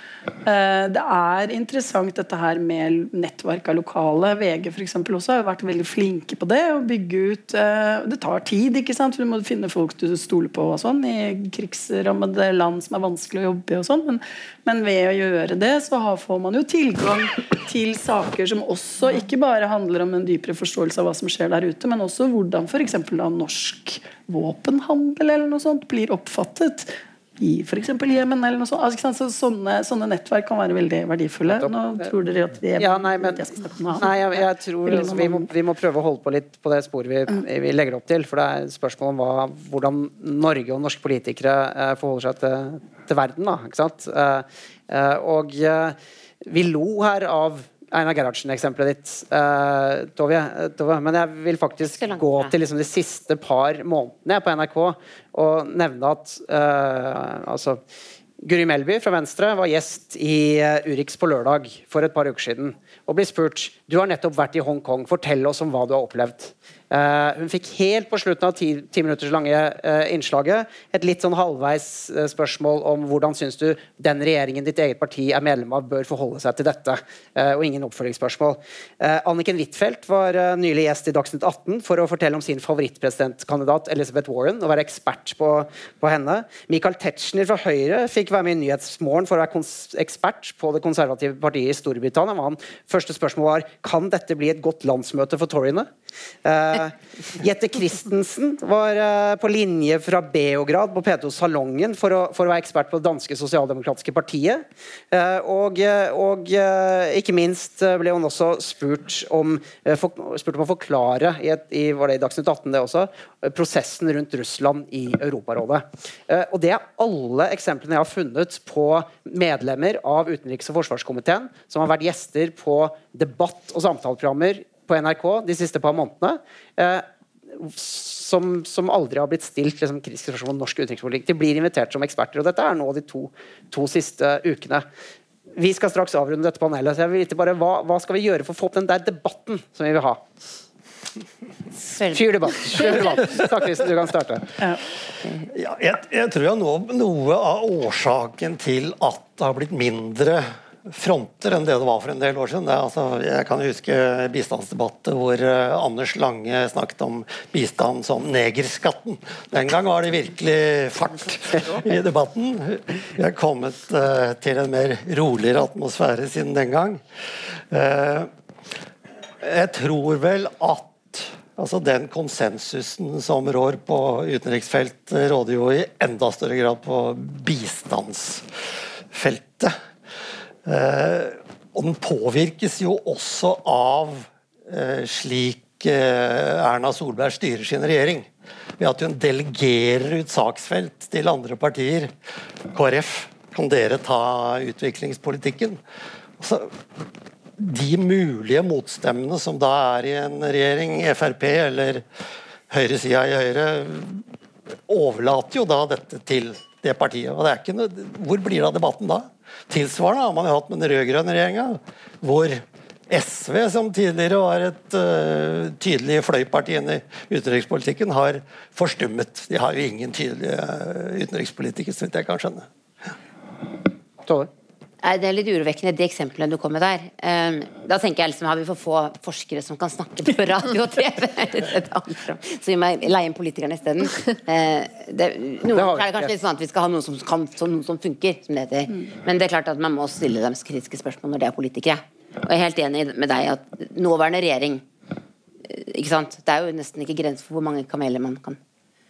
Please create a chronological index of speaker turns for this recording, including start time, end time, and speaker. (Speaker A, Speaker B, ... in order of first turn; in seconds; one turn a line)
Speaker A: 0.4-35.4
Speaker B: 31.5-32.1
Speaker B: 32.8-33.4
Speaker B: 34.0-57.8
Speaker C: 51.8-52.5
Speaker B: 58.4-95.9
Speaker B: 96.4-127.0
Speaker B: 127.5-134.8
Speaker B: 135.6-140.2
Speaker C: 141.8-143.0
Speaker B: 142.1-144.5
Speaker D: 145.5-167.0
Speaker D: 167.7-168.3
Speaker D: 169.4-178.4
Speaker D: 179.1-179.7
Speaker D: 180.7-192.1
Speaker D: 192.7-195.8
Speaker D: 196.4-196.7
Speaker D: 197.6-202.0
Speaker D: 202.7-204.2
Speaker D: 204.9-222.7
Speaker C: 225.0-244.8
Speaker B: 235.7-236.3
Speaker C: 245.7-248.6